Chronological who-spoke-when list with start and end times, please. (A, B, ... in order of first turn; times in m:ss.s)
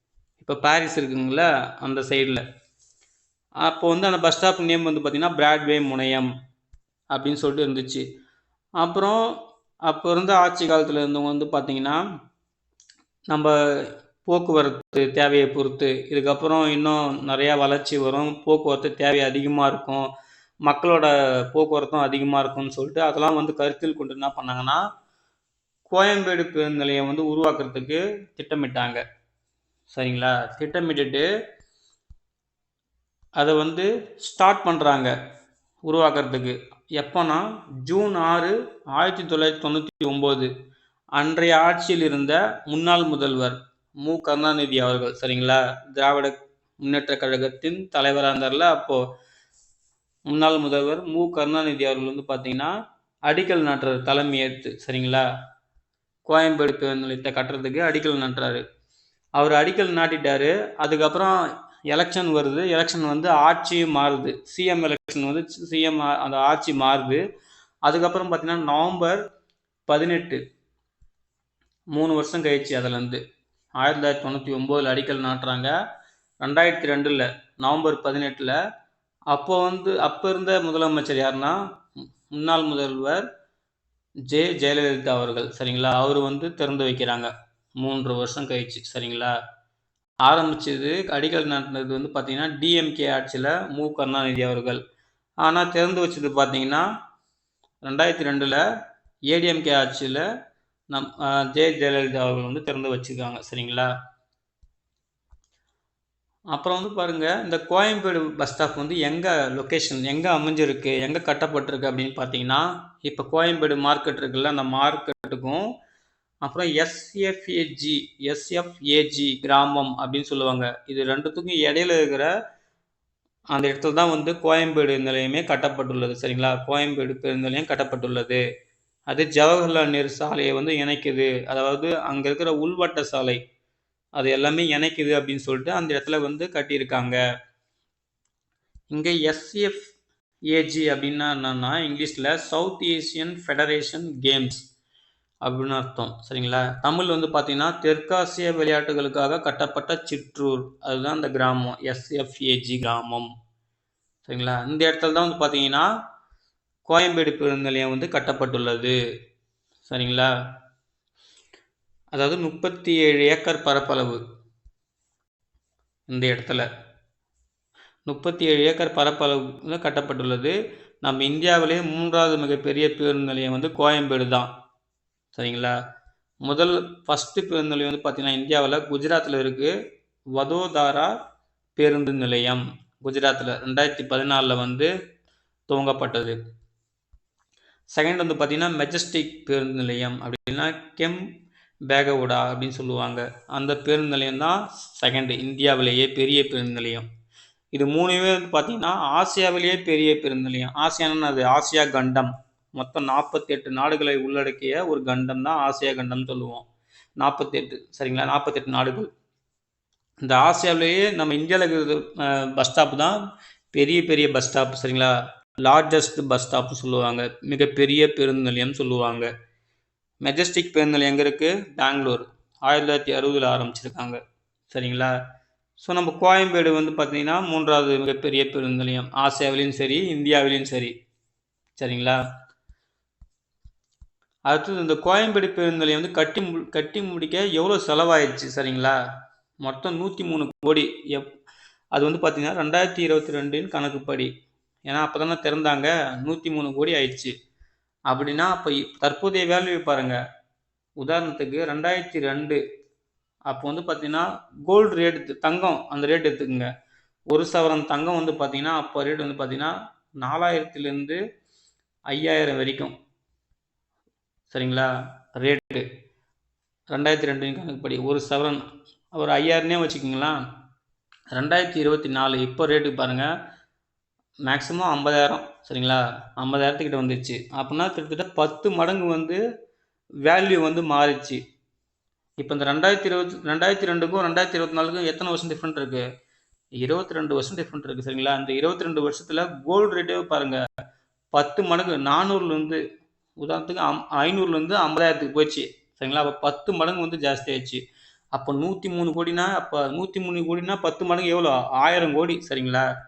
0:00.4-0:02.4 A
0:03.6-0:06.3 A
0:07.1-0:08.0 A
0:08.8-0:09.2 A
0:09.9-0:12.0 A
0:13.3-0:20.1 A
0:20.6-0:24.8 A
0:25.9-0:29.0 A
0:29.9-0:31.3 A
0:33.4-0:35.1 A
0:35.8-0:40.5 A
0:41.2-0:49.0 A
0:50.3-0:52.7 A
0:53.3-0:55.2 A
0:56.2-0:58.6 A
0:59.4-1:01.4 A
1:01.9-1:07.2 A
1:07.8-1:09.2 A
1:09.9-1:10.4 A
1:11.9-1:13.2 A
1:13.8-1:15.7 A
1:16.4-1:18.6 A
1:19.3-1:21.6 A
1:22.3-1:23.2 A
1:24.3-1:29.3 A
1:30.2-1:34.8 A
1:35.4-1:36.8 A
1:37.8-1:38.6 A
1:39.3-1:40.2 A
1:40.9-1:43.9 A
1:46.5-1:55.7 A
1:56.4-2:02.3 A
2:03.5-2:08.4 A
2:09.1-2:13.4 A
2:14.2-2:17.2 A
2:18.9-2:19.8 A
2:20.5-2:24.6 A
2:25.4-2:33.3 A
2:34.2-2:35.9 A
2:36.8-2:39.0 A
2:39.8-2:40.3 A
2:42.1-2:44.2 A
2:46.1-2:46.6 A
2:48.1-2:54.5 A
2:55.3-2:55.7 A
2:56.4-2:59.7 A
3:00.4-3:01.1 A
3:01.8-3:04.9 A
3:05.7-3:06.4 A
3:07.9-3:11.2 A
3:11.9-3:17.0 A
3:17.7-3:26.6 A
3:27.2-3:29.1 A
3:30.2-3:33.2 A
3:33.7-3:35.1 A
3:35.6-3:39.3 A
3:40.2-3:44.2 A
3:44.7-3:45.1 A
3:45.8-3:50.9 A
3:51.8-3:52.2 A
3:54.5-3:58.9 A
3:59.6-4:01.3 A
4:01.9-4:04.3 A
4:04.8-4:07.3 A
4:08.1-4:10.2 A
4:11.0-4:12.6 A
4:13.5-4:16.7 A
4:17.3-4:21.2 A
4:22.1-4:22.9 A
4:24.5-4:25.9 A
4:26.9-4:30.4 A
4:31.3-4:33.3 A
4:34.4-4:39.4 A
4:40.2-4:41.4 A
4:42.4-4:46.0 A
4:46.8-4:50.6 A
4:51.3-4:52.8 A
4:53.4-4:57.8 A
4:58.3-5:02.8 A